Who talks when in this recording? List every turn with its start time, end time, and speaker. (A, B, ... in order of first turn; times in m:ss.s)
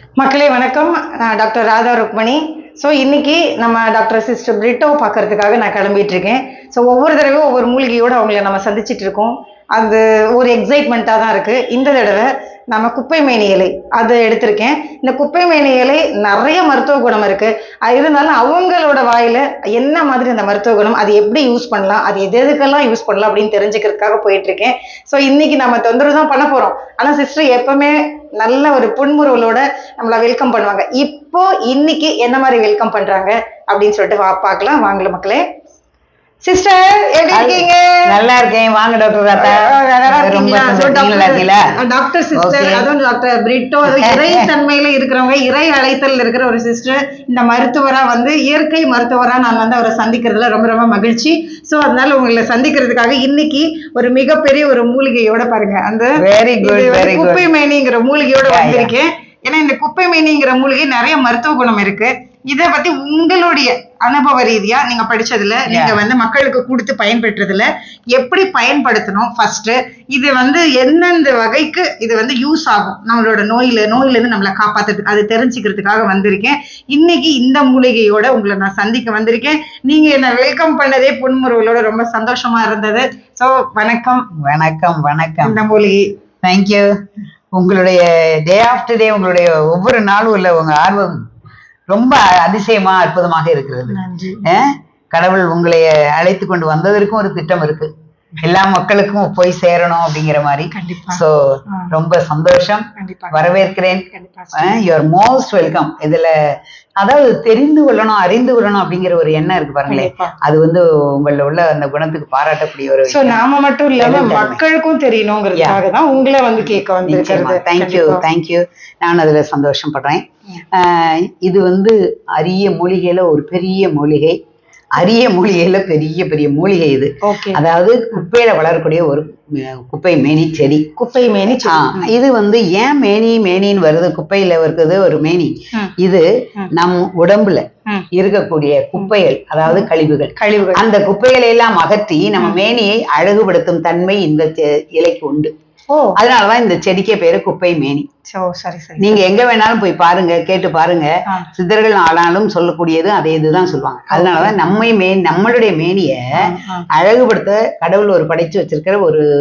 0:00.2-0:35.4 A
0:36.4-0:38.2 A
0:37.3-0:41.7 B
0:39.4-1:24.3 A
0:42.4-0:42.9 B
0:43.8-0:44.5 B
0:56.2-0:57.5 B
0:58.4-0:58.9 B
1:05.7-1:06.0 B
1:24.4-1:25.6 B
1:25.4-1:26.1 A
1:26.4-1:26.9 B
1:27.5-1:31.2 B
1:31.9-1:37.9 B
1:33.9-1:34.5 A
1:38.4-1:41.4 B
1:40.7-1:41.9 A
1:41.9-1:46.3 B
1:43.0-1:43.5 A
1:44.1-1:44.8 A
1:47.0-1:53.4 B
1:49.9-1:50.4 A
1:53.1-1:58.2 A
1:54.0-1:54.6 B
1:57.0-2:04.4 B
2:05.0-2:10.8 B
2:07.2-2:07.6 A
2:11.0-2:12.1 A
2:11.7-2:25.5 B
2:19.0-2:20.8 A
2:22.4-2:22.6 A
2:25.9-2:26.2 A
2:26.2-2:28.1 B
2:28.3-2:29.2 A
2:29.0-2:39.2 B
2:34.1-2:34.6 A
2:36.4-2:36.9 A